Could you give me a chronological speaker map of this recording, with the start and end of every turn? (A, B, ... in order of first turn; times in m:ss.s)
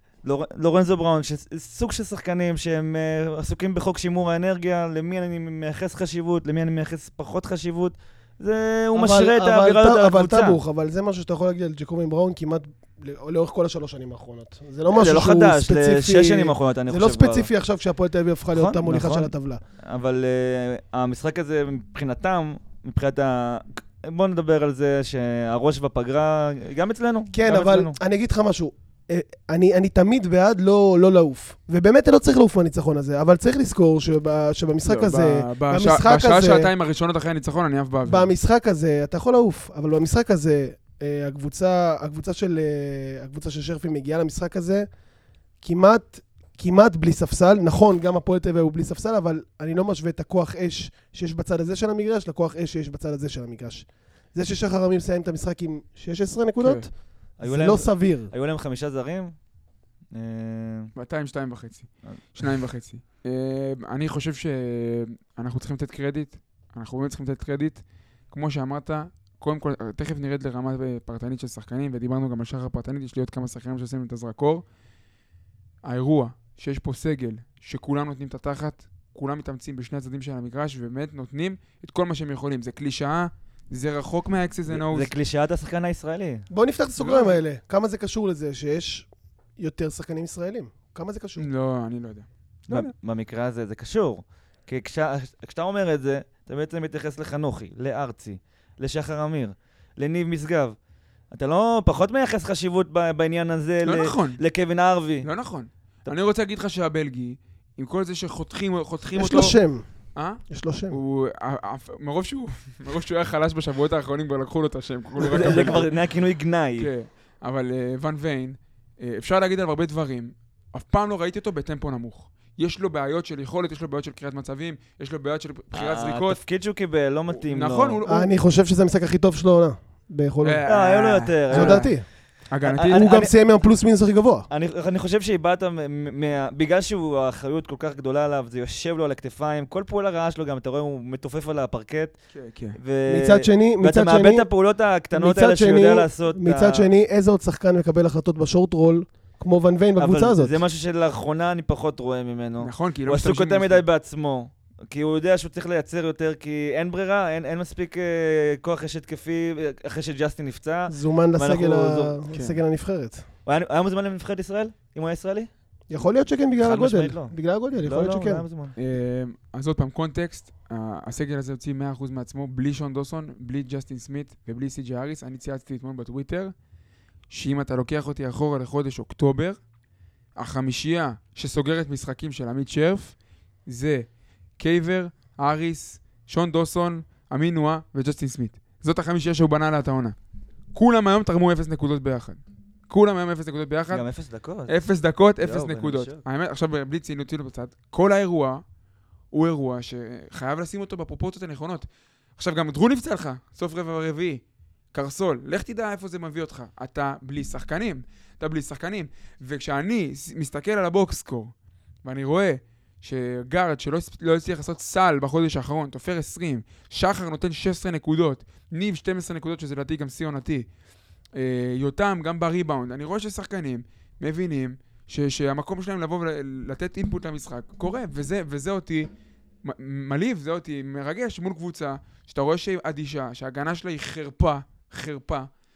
0:00.2-0:10.6 A
0:08.9-0:19.6 B
0:14.9-0:17.5 A
0:18.5-0:19.3 A
0:19.8-0:28.0 A
0:27.3-0:36.7 B
0:34.8-0:38.3 C
0:38.0-0:44.9 B
0:45.6-0:56.9 B
0:56.6-0:56.9 C
0:57.4-0:59.3 A
0:57.4-0:58.3 B
1:00.1-1:00.9 A
1:00.9-1:14.6 C
1:15.8-1:25.1 C
1:24.7-1:26.4 A
1:26.5-1:31.5 B
1:27.0-1:27.4 C
1:31.4-1:32.9 C
1:32.7-1:40.8 A
1:41.3-1:45.3 A
1:43.8-1:44.4 C
1:45.2-1:49.6 C
1:49.2-1:49.8 B
1:50.1-1:55.9 C
1:50.5-1:51.0 B
1:55.2-1:56.9 A
1:55.4-1:55.8 B
1:56.8-2:06.4 C
2:05.7-2:08.0 A
2:07.3-2:08.3 C
2:08.0-2:10.6 B
2:10.4-2:11.9 C
2:10.7-2:11.9 A
2:11.5-2:12.0 B
2:12.5-2:13.1 C
2:12.6-2:13.3 A
2:12.8-2:14.5 B
2:14.5-2:22.1 A
2:22.3-2:22.8 C
2:22.7-2:26.9 A
2:23.1-2:24.5 B
2:25.1-2:30.6 B
2:30.0-2:42.2 A
2:32.6-2:33.8 C
2:40.9-2:43.2 B
2:42.3-2:42.6 C
2:43.4-2:45.5 A
2:45.9-2:48.4 B
2:46.6-2:48.7 A
2:48.8-2:56.5 C
2:57.3-2:59.6 C
3:00.4-3:03.1 C
3:03.6-3:04.1 C
3:04.6-3:10.2 C
3:10.7-3:14.0 C
3:13.9-3:14.8 A
3:14.7-3:18.6 C
3:15.4-3:16.2 A
3:19.3-3:24.4 C
3:24.9-3:40.7 C
3:41.3-3:49.1 C
3:49.6-3:55.5 C